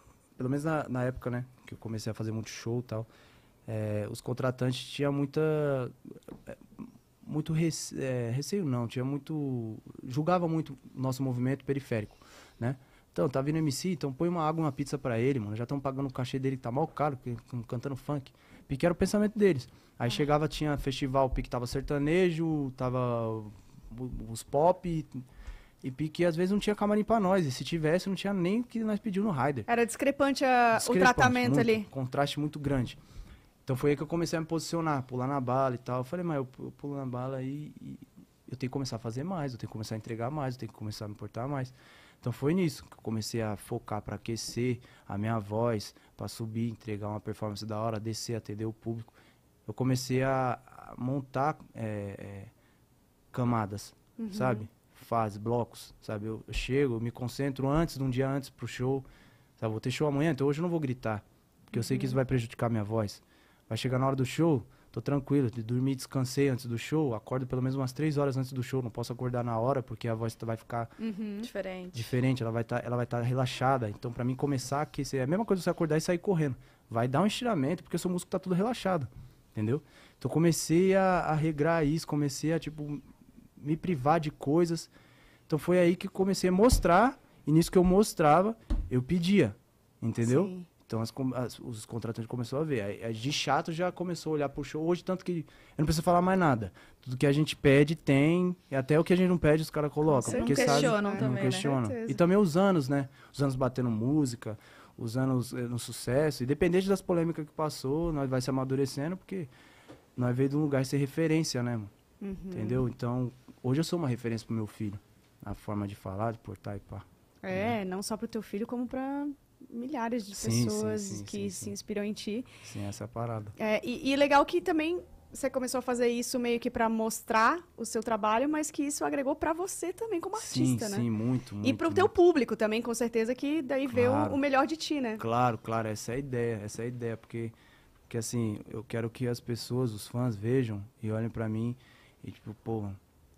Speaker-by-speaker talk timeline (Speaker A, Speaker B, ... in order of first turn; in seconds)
Speaker A: 0.4-3.1, 3.7-5.9, 7.2-25.2, 25.8-29.7, 30.8-33.0, 33.7-49.2, 49.7-52.5, 53.3-59.1, 59.6-71.0, 71.9-83.0, 83.6-84.9, 85.5-109.5, 110.2-111.9, 112.5-117.8, 120.3-121.8, 122.6-123.5, 130.3-132.1, 133.9-134.4, 135.2-137.6, 138.1-143.0
Speaker B: 29.7-31.9, 54.2-54.7, 61.8-62.1, 71.0-71.5, 90.2-90.7, 100.1-102.2, 112.2-112.8, 117.4-122.5, 123.6-131.1, 131.6-135.2
Speaker C: 71.4-72.2, 100.2-101.7